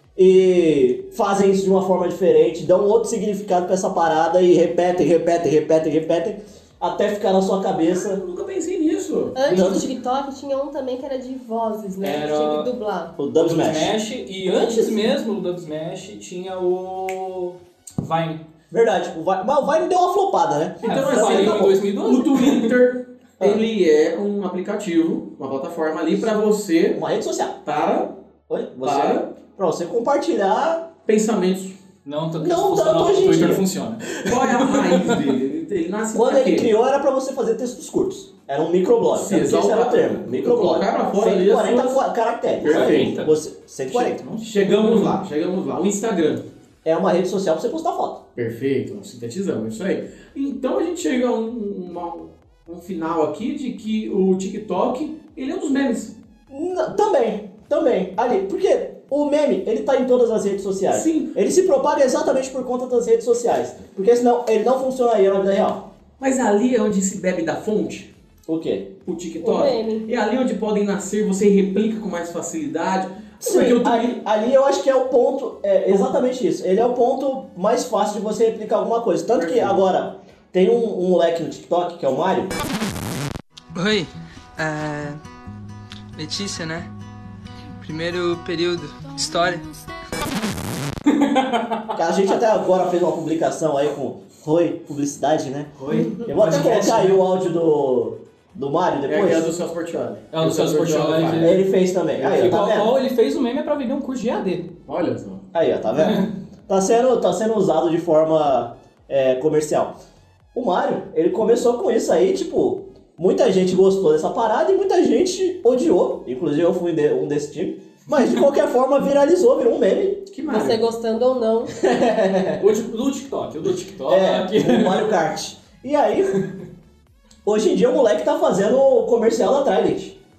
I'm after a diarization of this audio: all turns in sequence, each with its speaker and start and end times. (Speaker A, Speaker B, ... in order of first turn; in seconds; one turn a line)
Speaker A: 0.1-8.2
Speaker B: 7.9-9.4
Speaker C: 9.3-13.1
Speaker A: 9.5-9.9
Speaker D: 12.0-12.7
Speaker A: 13.2-15.1
Speaker D: 13.4-18.4
Speaker A: 18.7-21.8
Speaker B: 20.8-27.0
Speaker D: 20.8-22.8
Speaker A: 26.9-27.6
Speaker B: 27.6-28.1
Speaker A: 28.5-30.9
Speaker B: 28.8-29.3
Speaker B: 31.1-31.8
Speaker D: 32.0-35.3
Speaker A: 32.4-33.6
Speaker B: 34.3-36.7
Speaker A: 36.1-44.2
Speaker B: 39.1-42.0
Speaker B: 42.6-43.2
Speaker D: 42.6-43.3
Speaker D: 43.9-45.2
Speaker B: 44.4-46.5
Speaker A: 46.8-48.2
Speaker B: 48.4-56.2
Speaker A: 56.5-65.9
Speaker B: 60.9-61.3
Speaker B: 66.2-68.1
Speaker A: 68.5-68.9
Speaker B: 69.0-74.2
Speaker C: 69.4-70.1
Speaker A: 73.4-82.5
Speaker B: 79.3-79.8
Speaker E: 83.7-85.2
Speaker E: 86.2-86.9
Speaker E: 87.8-89.6
Speaker D: 91.0-92.0
Speaker A: 91.9-95.7
Speaker B: 95.8-96.6
Speaker C: 95.9-96.3
Speaker A: 96.2-99.5
Speaker D: 96.3-97.2
Speaker B: 99.0-101.6
Speaker D: 100.3-101.6
Speaker A: 101.4-102.9
Speaker D: 102.2-104.7
Speaker B: 104.8-105.5
Speaker A: 105.5-110.0
Speaker D: 106.0-106.3
Speaker A: 110.5-120.3
Speaker B: 120.3-120.8
Speaker C: 120.5-121.7
Speaker A: 121.8-122.7
Speaker D: 122.6-125.1
Speaker A: 124.1-126.4
Speaker A: 127.4-130.2